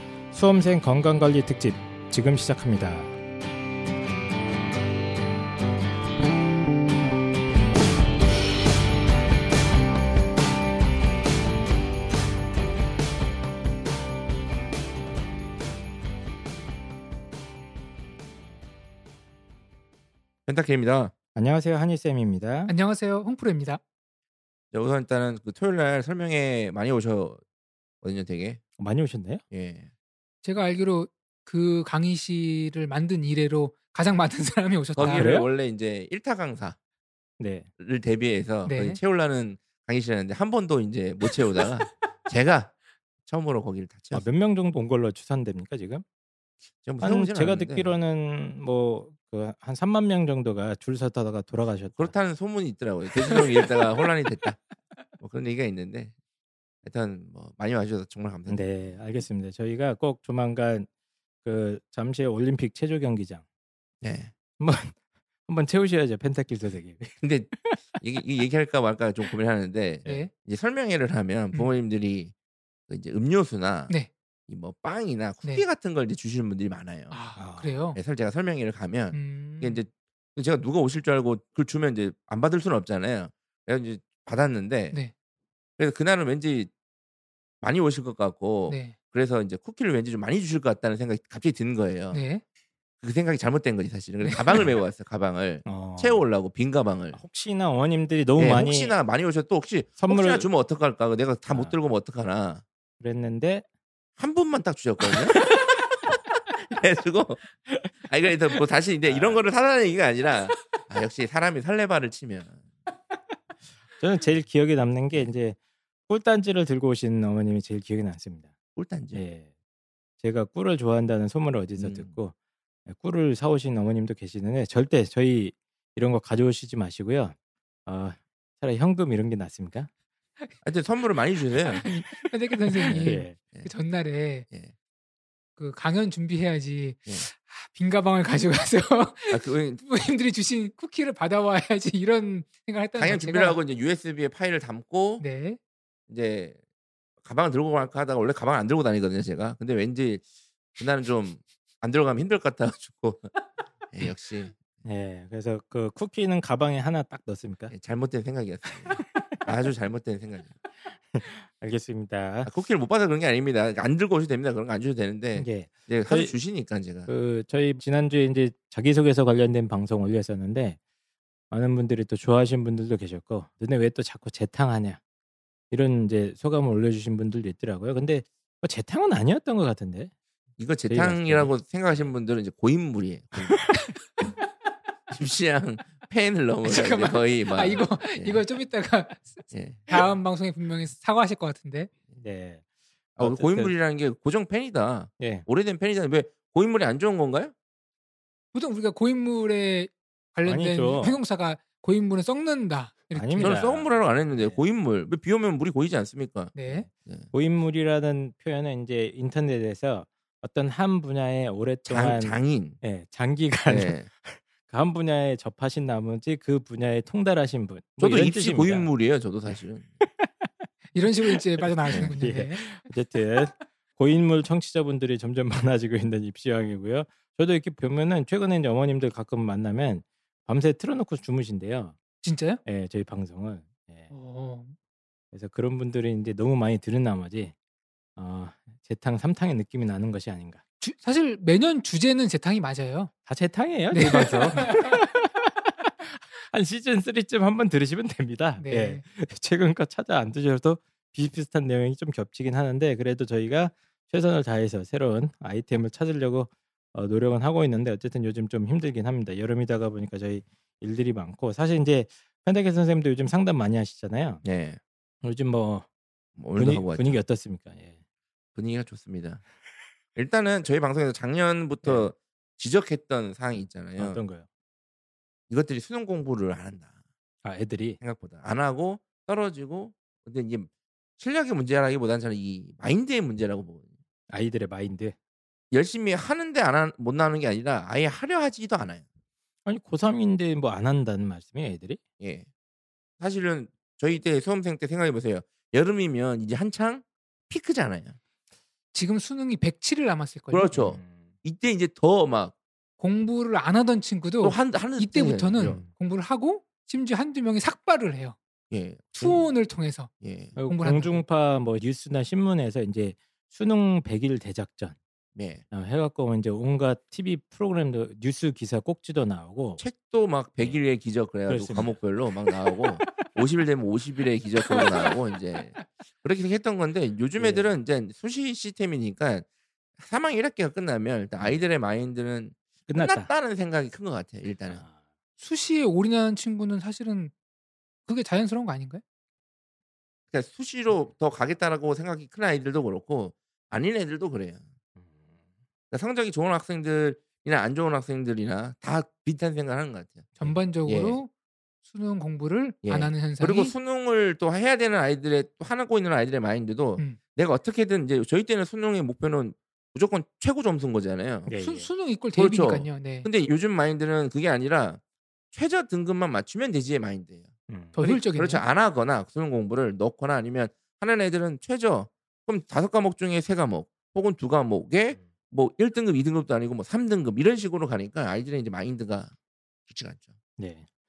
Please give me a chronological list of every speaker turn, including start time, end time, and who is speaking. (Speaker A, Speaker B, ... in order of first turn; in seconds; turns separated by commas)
Speaker A: 0.3-3.1, Speaker B: 20.5-21.1, Speaker A: 21.4-22.7, Speaker C: 22.7-23.8, Speaker B: 24.7-27.4, Speaker B: 28.0-28.6, Speaker A: 28.8-29.4, Speaker B: 29.5-29.9, Speaker C: 30.4-35.3, Speaker B: 35.0-36.8, Speaker A: 35.0-35.5, Speaker A: 37.4-37.7, Speaker B: 37.8-42.7, Speaker C: 38.7-39.0, Speaker B: 43.3-44.3, Speaker A: 44.1-46.0, Speaker B: 46.8-47.9, Speaker A: 47.0-52.1, Speaker B: 52.0-54.6, Speaker B: 55.2-56.1, Speaker B: 56.8-58.9, Speaker A: 58.5-60.9, Speaker A: 61.4-63.4, Speaker B: 64.0-64.3, Speaker A: 64.6-65.0, Speaker A: 65.5-67.8, Speaker B: 67.2-72.3, Speaker C: 70.1-70.3, Speaker B: 72.9-74.0, Speaker B: 74.5-77.2, Speaker C: 77.1-78.0, Speaker A: 77.4-77.8, Speaker B: 78.0-85.0, Speaker C: 79.1-79.8, Speaker B: 85.8-86.7, Speaker B: 87.6-92.2, Speaker C: 88.7-89.0, Speaker C: 92.1-92.4, Speaker B: 93.0-97.2, Speaker C: 94.2-94.6, Speaker A: 95.7-96.2, Speaker A: 97.1-98.9, Speaker B: 98.4-102.6, Speaker A: 100.0-100.5, Speaker A: 103.0-103.7, Speaker B: 104.2-105.4, Speaker B: 106.7-107.4, Speaker B: 108.0-112.6, Speaker A: 109.0-109.4, Speaker A: 114.0-115.6, Speaker A: 116.1-118.5, Speaker B: 118.8-119.2, Speaker A: 119.1-119.5, Speaker A: 120.2-122.3, Speaker B: 121.8-122.1, Speaker A: 122.9-127.3, Speaker A: 127.9-129.9, Speaker B: 130.6-131.9, Speaker C: 131.8-134.5, Speaker B: 132.9-133.7, Speaker A: 133.0-133.4, Speaker C: 135.6-143.6, Speaker B: 139.3-139.8, Speaker B: 143.0-145.2, Speaker C: 145.2-145.6, Speaker B: 146.1-146.6, Speaker B: 147.2-150.2, Speaker B: 150.8-153.3, Speaker B: 153.9-154.5, Speaker A: 154.8-157.7, Speaker B: 157.7-160.5, Speaker A: 159.0-159.4, Speaker A: 160.9-162.5, Speaker B: 162.5-167.1, Speaker A: 165.3-166.3, Speaker A: 167.1-170.8, Speaker A: 171.5-175.0, Speaker A: 175.7-180.1, Speaker B: 180.6-183.7, Speaker A: 180.9-182.1, Speaker B: 185.1-188.4, Speaker C: 186.7-191.9, Speaker B: 189.5-189.9, Speaker A: 192.1-192.6, Speaker B: 193.2-197.5, Speaker A: 193.2-193.7, Speaker A: 195.2-195.4, Speaker C: 198.5-203.6, Speaker A: 200.4-201.2, Speaker A: 203.2-204.6, Speaker B: 203.4-207.3, Speaker C: 206.6-206.9, Speaker A: 206.7-218.9, Speaker B: 211.9-212.8, Speaker B: 213.7-214.1, Speaker B: 218.0-219.9, Speaker A: 220.0-220.7, Speaker C: 220.9-222.8, Speaker A: 221.3-232.0, Speaker C: 232.2-232.6, Speaker A: 232.7-234.1, Speaker C: 234.1-234.8, Speaker A: 235.3-237.5, Speaker A: 238.2-240.6, Speaker C: 240.8-243.1, Speaker A: 243.3-245.5, Speaker C: 243.9-245.0, Speaker A: 246.0-264.4, Speaker C: 248.6-249.0, Speaker B: 264.4-264.8, Speaker A: 265.2-265.9, Speaker B: 266.4-267.2, Speaker A: 266.6-268.0, Speaker B: 268.6-269.4, Speaker B: 270.2-274.2, Speaker A: 271.8-272.1, Speaker A: 274.0-274.4, Speaker B: 275.5-276.9, Speaker A: 277.4-278.0, Speaker B: 278.0-283.9, Speaker A: 284.3-285.1, Speaker B: 285.7-289.0, Speaker A: 289.7-292.0, Speaker B: 292.2-292.5, Speaker B: 293.2-298.2, Speaker C: 298.9-300.7, Speaker B: 300.5-302.5, Speaker A: 300.7-301.2, Speaker C: 303.0-308.4, Speaker B: 304.4-305.8, Speaker A: 305.6-305.9, Speaker B: 308.7-309.4, Speaker C: 309.1-310.1, Speaker B: 310.2-310.6, Speaker A: 310.6-315.0, Speaker C: 310.7-311.2, Speaker B: 315.4-315.6, Speaker A: 315.7-319.8, Speaker B: 319.8-329.4, Speaker A: 321.5-322.0, Speaker A: 327.4-327.7, Speaker B: 330.0-334.8, Speaker A: 332.9-333.3, Speaker C: 335.4-337.3, Speaker C: 338.1-339.0, Speaker B: 340.3-344.6, Speaker B: 345.9-351.2, Speaker C: 350.4-351.3, Speaker C: 351.9-353.8, Speaker B: 352.9-361.5, Speaker A: 361.5-361.9, Speaker C: 361.6-363.3, Speaker B: 362.4-365.0, Speaker B: 365.5-367.5, Speaker A: 367.7-368.0, Speaker C: 367.9-368.6, Speaker B: 368.0-379.3, Speaker B: 379.9-380.3, Speaker A: 380.6-380.9